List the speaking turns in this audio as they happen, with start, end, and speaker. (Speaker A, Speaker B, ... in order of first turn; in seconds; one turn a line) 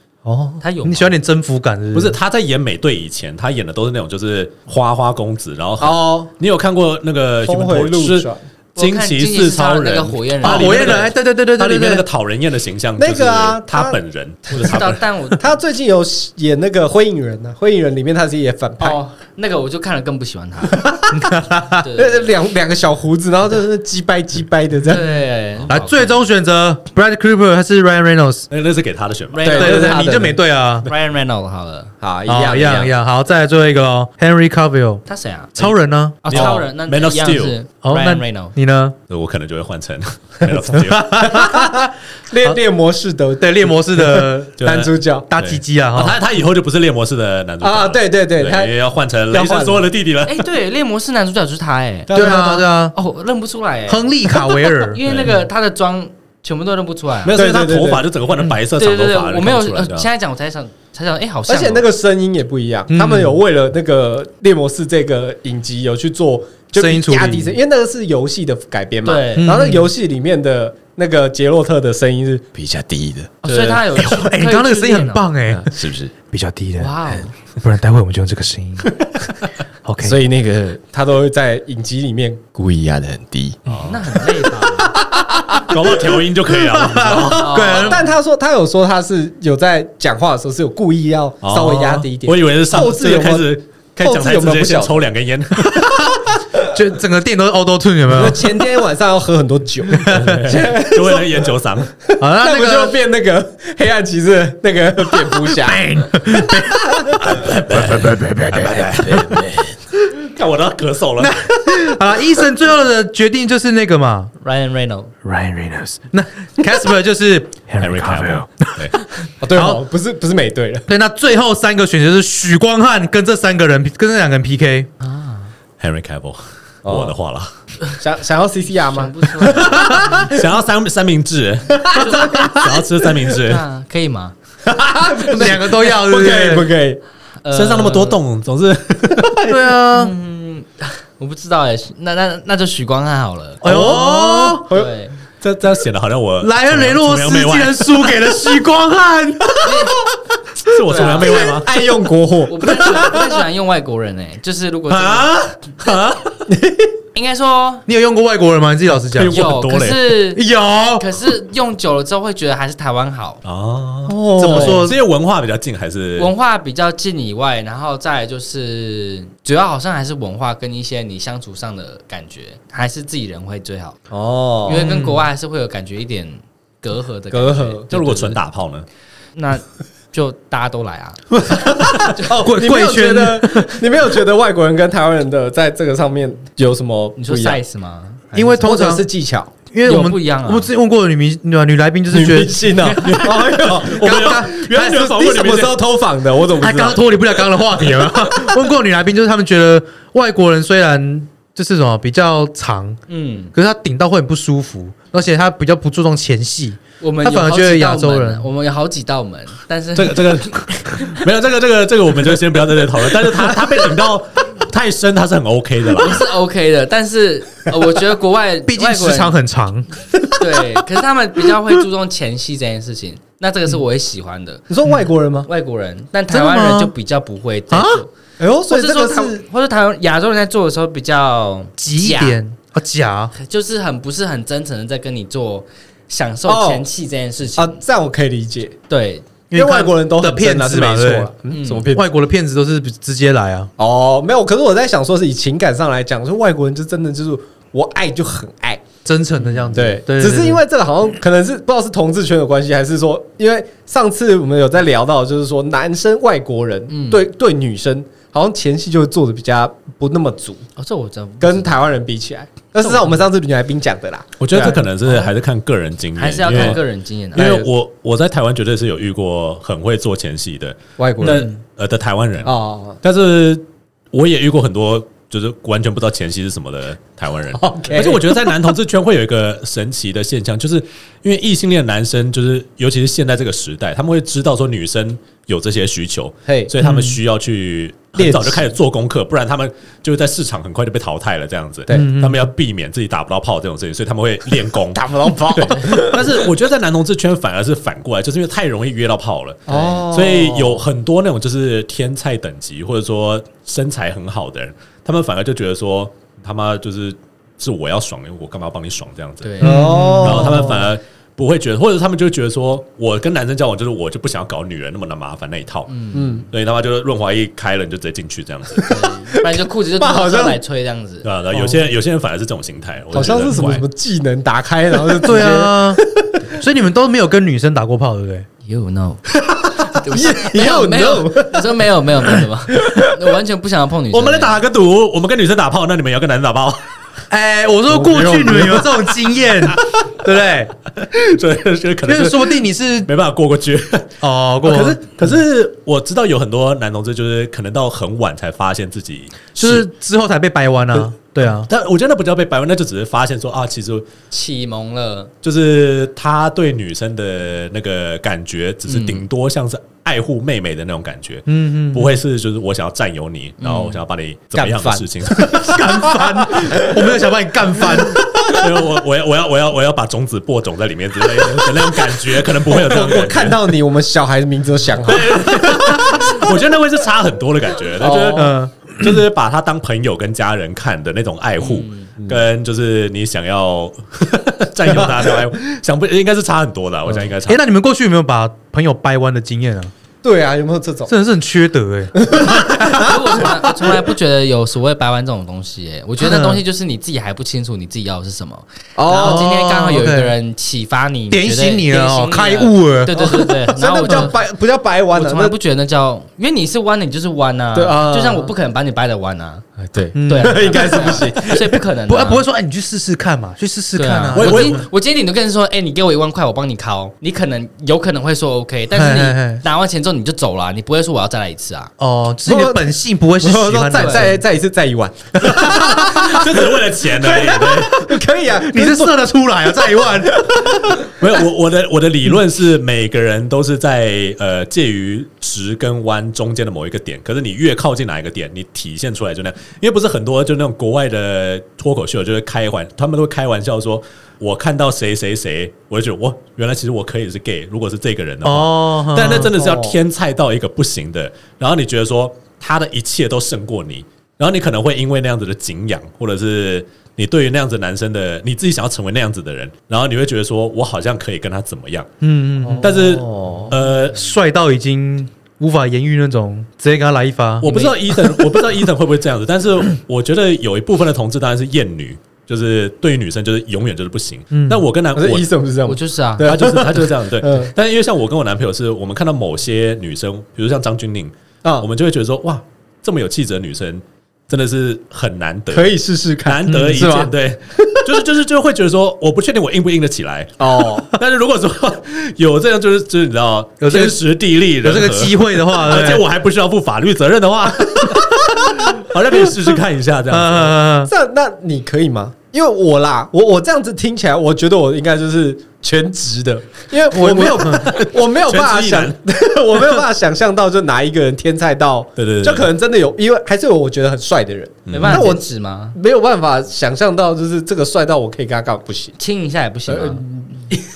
Speaker A: 0.2-2.2
Speaker B: 0.6-1.1
Speaker C: 1.9-15.1
Speaker D: 5.8-6.3
Speaker D: 7.4-8.4
Speaker B: 8.8-11.1
Speaker A: 10.4-12.1
Speaker D: 13.0-14.0
Speaker B: 14.6-15.6
Speaker D: 15.4-19.0
Speaker B: 18.8-20.9
Speaker D: 20.7-21.2
Speaker A: 21.1-21.8
Speaker B: 21.8-22.3
Speaker D: 21.9-25.1
Speaker B: 24.9-26.2
Speaker A: 25.7-28.5
Speaker C: 28.5-29.7
Speaker B: 29.3-30.1
Speaker D: 29.4-30.4
Speaker A: 29.5-30.9
Speaker B: 30.8-31.9
Speaker D: 32.0-32.9
Speaker A: 32.3-35.0
Speaker B: 35.1-38.5
Speaker A: 35.6-36.3
Speaker C: 36.3-37.5
Speaker A: 37.8-39.0
Speaker C: 39.1-41.4
Speaker A: 40.8-41.9
Speaker D: 41.2-45.3
Speaker A: 43.4-44.6
Speaker C: 44.6-50.5
Speaker A: 45.3-46.2
Speaker D: 47.6-48.8
Speaker D: 49.3-49.9
Speaker B: 50.3-52.4
Speaker D: 52.1-52.7
Speaker A: 52.1-52.9
Speaker B: 52.9-57.4
Speaker A: 53.9-55.0
Speaker C: 55.0-55.4
Speaker C: 57.2-60.1
Speaker D: 57.3-58.1
Speaker B: 58.8-61.9
Speaker D: 61.5-73.9
Speaker A: 62.9-63.4
Speaker A: 66.8-67.6
Speaker B: 69.0-69.8
Speaker A: 69.4-69.9
Speaker C: 72.6-73.2
Speaker B: 73.4-75.3
Speaker A: 73.9-79.0
Speaker D: 75.5-76.1
Speaker B: 76.8-77.3
Speaker A: 79.8-80.2
Speaker D: 80.0-83.6
Speaker C: 83.7-84.2
Speaker B: 83.8-85.0
Speaker D: 84.8-86.0
Speaker C: 85.6-87.7
Speaker A: 86.6-88.1
Speaker D: 87.2-95.0
Speaker B: 87.4-88.1
Speaker C: 91.4-95.9
Speaker A: 96.7-98.7
Speaker D: 98.1-101.5
Speaker A: 99.9-100.4
Speaker C: 100.1-101.9
Speaker D: 102.1-107.2
Speaker A: 102.2-103.0
Speaker A: 105.2-109.5
Speaker C: 107.2-109.6
Speaker C: 110.2-111.4
Speaker A: 111.2-114.3
Speaker B: 114.4-115.1
Speaker A: 115.2-118.9
Speaker C: 117.8-119.0
Speaker D: 119.4-120.9
Speaker A: 119.5-119.8
Speaker A: 120.9-124.9
Speaker B: 125.0-125.5
Speaker C: 125.8-127.5
Speaker D: 126.8-127.2
Speaker D: 128.0-130.4
Speaker B: 128.9-130.1
Speaker C: 129.9-133.6
Speaker D: 131.8-132.2
Speaker B: 131.9-132.4
Speaker A: 132.2-132.5
Speaker B: 133.4-134.3
Speaker D: 134.7-137.0
Speaker A: 135.3-136.8
Speaker B: 137.4-138.2
Speaker C: 137.5-139.4
Speaker D: 139.1-139.6
Speaker A: 139.4-140.1
Speaker B: 139.9-143.9
Speaker A: 143.6-144.7
Speaker D: 143.6-144.9
Speaker B: 144.7-145.1
Speaker C: 145.4-148.2
Speaker A: 146.4-149.9
Speaker B: 149.6-149.9
Speaker C: 150.7-151.7
Speaker B: 150.9-151.5
Speaker D: 151.2-153.4
Speaker B: 152.5-155.4
Speaker C: 154.9-156.5
Speaker D: 156.5-156.9
Speaker B: 157.2-157.9
Speaker A: 157.9-159.5
Speaker C: 159.2-160.1
Speaker B: 159.2-160.4
Speaker A: 160.3-161.1
Speaker B: 161.0-163.4
Speaker C: 163.4-166.3
Speaker D: 164.1-164.9
Speaker A: 164.4-165.0
Speaker B: 166.2-174.0
Speaker D: 174.1-174.9
Speaker B: 174.7-178.4
Speaker A: 174.7-175.3
Speaker D: 177.3-177.8
Speaker C: 177.9-178.8
Speaker B: 179.3-181.6
Speaker D: 181.7-187.6
Speaker A: 182.3-183.9
Speaker B: 187.2-188.7
Speaker A: 188.3-189.1
Speaker D: 188.6-189.5
Speaker A: 189.7-192.6
Speaker B: 189.8-190.7
Speaker D: 192.1-197.0
Speaker C: 192.8-195.8
Speaker A: 193.9-195.2
Speaker A: 196.6-203.0
Speaker B: 203.1-203.5
Speaker A: 203.5-208.5
Speaker B: 207.0-211.2
Speaker C: 209.9-216.3
Speaker B: 216.0-219.3
Speaker A: 218.7-220.7
Speaker B: 220.4-224.7
Speaker D: 224.7-225.5
Speaker B: 225.5-228.1
Speaker A: 226.3-226.9
Speaker A: 227.7-228.0
Speaker D: 228.4-229.4
Speaker B: 228.7-232.4
Speaker A: 231.8-233.3
Speaker B: 233.3-237.8
Speaker D: 236.5-236.9
Speaker D: 237.6-238.8
Speaker B: 238.9-239.3
Speaker A: 239.5-241.3
Speaker D: 239.5-242.1
Speaker B: 241.5-241.9
Speaker A: 241.9-243.7
Speaker D: 243.8-248.9
Speaker A: 249.1-250.6
Speaker B: 249.5-249.8
Speaker D: 249.7-260.7
Speaker B: 256.9-257.3
Speaker B: 260.8-261.7
Speaker D: 261.4-264.8
Speaker B: 262.8-263.2
Speaker C: 264.4-266.8
Speaker B: 266.2-267.6
Speaker D: 266.5-266.8
Speaker C: 267.3-315.9
Speaker D: 267.4-267.7
Speaker D: 271.0-271.5
Speaker A: 271.2-271.5
Speaker D: 272.4-273.0
Speaker D: 277.6-278.6
Speaker D: 286.5-286.7
Speaker A: 286.8-287.2
Speaker D: 288.2-288.6
Speaker A: 291.9-292.5
Speaker D: 294.9-296.5
Speaker D: 299.7-300.8
Speaker B: 299.7-300.0
Speaker B: 309.4-310.3
Speaker A: 309.6-310.6
Speaker D: 309.6-310.9
Speaker B: 315.9-316.4
Speaker D: 316.1-316.5
Speaker C: 316.5-318.9
Speaker B: 318.9-321.3
Speaker D: 320.0-320.6
Speaker C: 321.2-323.8
Speaker D: 321.5-321.8
Speaker D: 323.1-326.5
Speaker A: 325.1-326.0
Speaker A: 326.5-328.5
Speaker B: 328.6-329.2
Speaker D: 329.6-331.8
Speaker B: 329.9-334.6
Speaker D: 332.3-333.2
Speaker C: 334.1-336.8
Speaker A: 337.3-340.7
Speaker D: 337.9-339.1
Speaker C: 341.0-349.9
Speaker A: 342.1-343.1
Speaker A: 344.2-345.0
Speaker A: 349.6-351.7
Speaker C: 350.9-354.1
Speaker B: 354.3-355.3
Speaker C: 355.4-366.1
Speaker B: 358.9-359.2
Speaker A: 361.5-362.2
Speaker B: 363.6-364.0
Speaker D: 364.6-367.2
Speaker A: 365.5-368.7
Speaker D: 367.8-368.2
Speaker C: 368.5-373.8
Speaker D: 372.6-376.5
Speaker C: 375.0-387.6
Speaker D: 378.0-378.5
Speaker A: 378.3-379.2
Speaker B: 381.6-382.1
Speaker D: 384.9-385.3
Speaker A: 387.5-389.9
Speaker D: 390.2-391.1
Speaker A: 391.1-393.5
Speaker D: 392.2-393.9
Speaker B: 392.8-404.4
Speaker A: 396.2-396.6
Speaker D: 399.0-399.5
Speaker A: 399.2-400.3
Speaker A: 401.3-403.5
Speaker D: 403.1-405.6
Speaker B: 405.1-409.7
Speaker D: 407.8-408.5
Speaker D: 409.8-411.8
Speaker A: 410.1-410.8
Speaker B: 410.2-412.4
Speaker A: 412.1-414.8
Speaker B: 414.0-421.9
Speaker C: 414.4-414.8
Speaker A: 418.9-419.6
Speaker A: 422.0-424.4
Speaker D: 422.5-422.9
Speaker D: 423.4-431.2
Speaker B: 423.9-424.3
Speaker C: 425.6-428.2
Speaker A: 425.7-426.2
Speaker A: 428.5-430.7
Speaker C: 431.1-462.1
Speaker A: 448.4-449.5
Speaker D: 449.3-450.0
Speaker A: 462.2-462.9
Speaker D: 462.6-463.8
Speaker C: 462.8-464.2
Speaker A: 464.1-467.7
Speaker C: 467.6-475.5
Speaker B: 467.7-467.9
Speaker A: 474.5-474.8
Speaker D: 475.2-477.7
Speaker B: 475.9-476.5
Speaker C: 476.4-500.8
Speaker D: 485.7-487.3
Speaker A: 486.7-487.3
Speaker D: 490.6-491.1
Speaker A: 493.8-494.2
Speaker A: 494.8-496.3
Speaker A: 500.3-501.1
Speaker D: 501.1-515.4
Speaker A: 507.1-507.9
Speaker C: 507.6-509.2
Speaker C: 512.2-512.7
Speaker C: 514.9-515.2
Speaker B: 514.9-516.0
Speaker D: 516.0-519.2
Speaker B: 519.2-520.2
Speaker D: 519.9-520.6